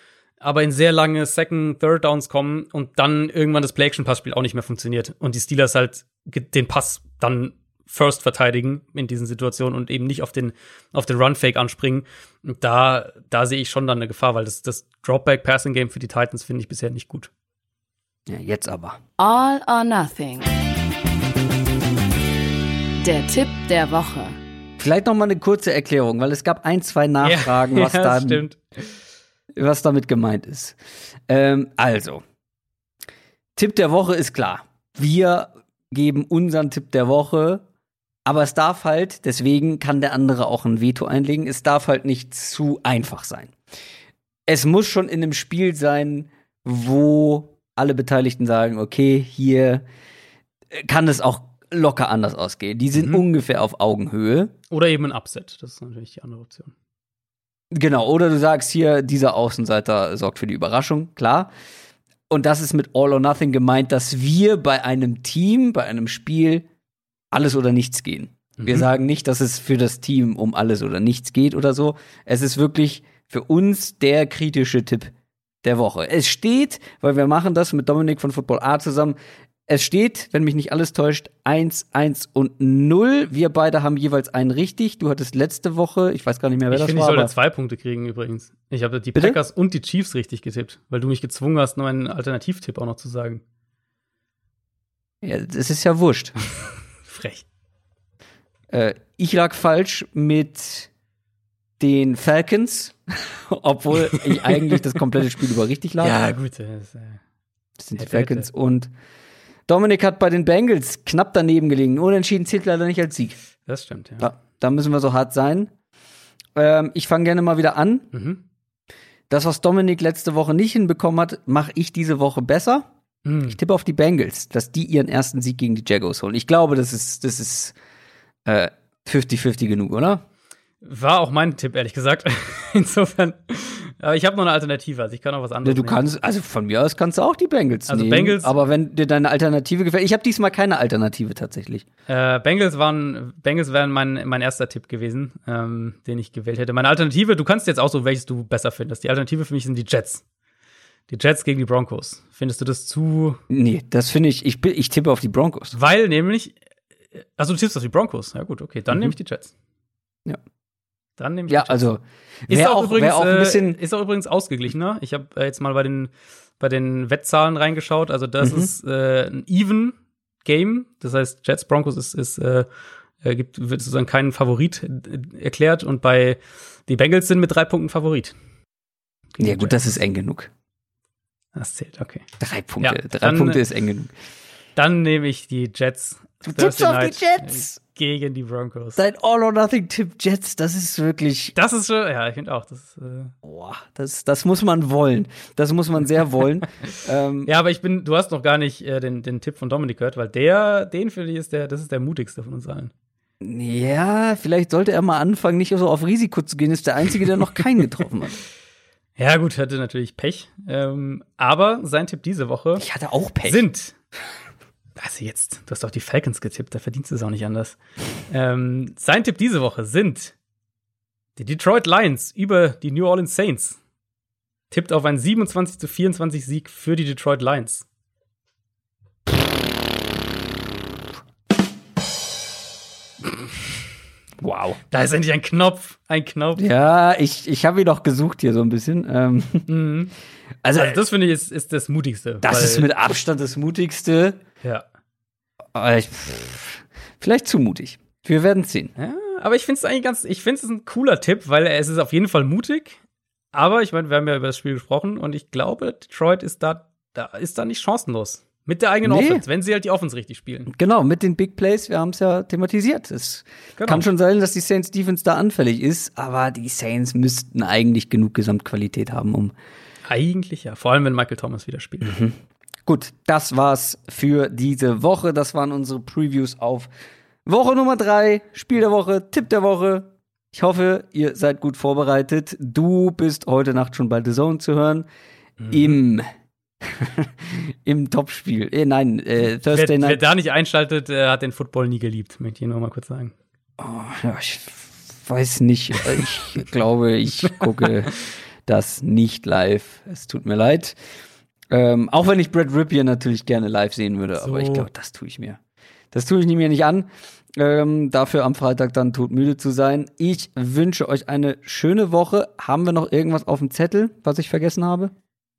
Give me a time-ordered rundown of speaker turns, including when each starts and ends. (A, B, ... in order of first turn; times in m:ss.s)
0:00.4-0:17.3 A
0:18.3-0:19.0 B
0:19.2-0:20.6 C
0:23.0-0:24.4 C
0:24.8-0:28.4 B
0:27.2-0:28.9 A
0:29.6-0:30.8 B
0:31.3-0:32.2 B
0:33.6-0:37.6 B
0:38.2-0:43.5 B
0:44.5-0:49.8 B
0:50.7-0:54.5 B
0:54.7-0:56.7 A
0:57.7-1:01.5 B
1:02.3-1:06.6 B
1:07.3-1:15.1 B
1:08.6-1:08.8 A
1:15.6-1:19.1 B
1:19.7-1:27.3 B
1:26.7-1:33.4 A
1:35.2-1:36.4 B
1:37.0-1:37.4 A
1:38.7-1:40.9 B
1:41.8-1:46.2 B
1:44.1-1:44.8 A
1:46.0-1:47.2 A
1:47.8-1:48.9 B
1:48.0-1:48.5 A
1:49.7-1:53.4 B
1:53.7-1:54.2 A
1:54.2-1:55.7 B
1:56.5-1:58.1 B
1:58.1-1:58.4 A
1:59.3-2:02.9 B
2:03.2-2:03.6 A
2:03.4-2:07.8 B
2:08.4-2:10.2 B
2:10.8-2:16.0 A
2:15.6-2:21.8 B
2:17.9-2:18.6 A
2:22.1-2:30.2 A
2:31.1-2:33.4 A
2:33.5-2:35.8 B
2:35.7-2:36.6 A
2:37.1-2:39.5 A
2:41.2-2:42.0 A
2:41.5-2:43.8 B
2:42.5-2:52.7 A
2:48.4-2:48.7 B
2:53.2-2:58.3 A
2:59.4-3:00.5 B
2:59.4-2:59.8 A
3:01.5-3:02.2 A
3:02.4-3:04.1 B
3:02.8-3:03.6 A
3:04.8-3:09.0 A
3:06.4-3:07.8 B
3:09.0-3:11.5 B
3:11.6-3:13.3 A
3:13.4-3:17.5 B
3:17.4-3:22.9 A
3:23.4-3:28.4 B
3:29.2-3:32.8 A
3:32.8-3:33.6 B
3:33.4-3:33.9 A
3:35.0-3:37.8 A
3:38.3-3:40.3 A
3:41.4-3:43.8 A
3:44.7-3:47.8 A
3:54.4-3:54.8 B
3:54.9-3:56.6 A
3:56.6-3:59.7 B
3:59.7-4:00.1 A
4:00.6-4:01.0 B
4:00.7-4:02.9 A
4:02.4-4:04.4 B
4:05.7-4:08.9 B
4:09.0-4:13.0 A
4:13.5-4:20.7 A
4:19.0-4:19.4 B
4:20.7-4:29.5 B
4:23.8-4:24.0 A
4:30.0-4:32.2 A
4:32.0-4:32.3 B
4:32.8-4:36.9 B
4:37.4-4:45.0 B
4:45.6-4:46.0 A
4:45.7-4:46.3 B
4:46.8-4:50.2 B
4:49.7-4:53.3 A
4:53.8-5:00.9 B
4:57.5-4:57.9 A
5:01.7-5:05.6 B
5:04.4-5:04.9 A
5:06.1-5:15.1 B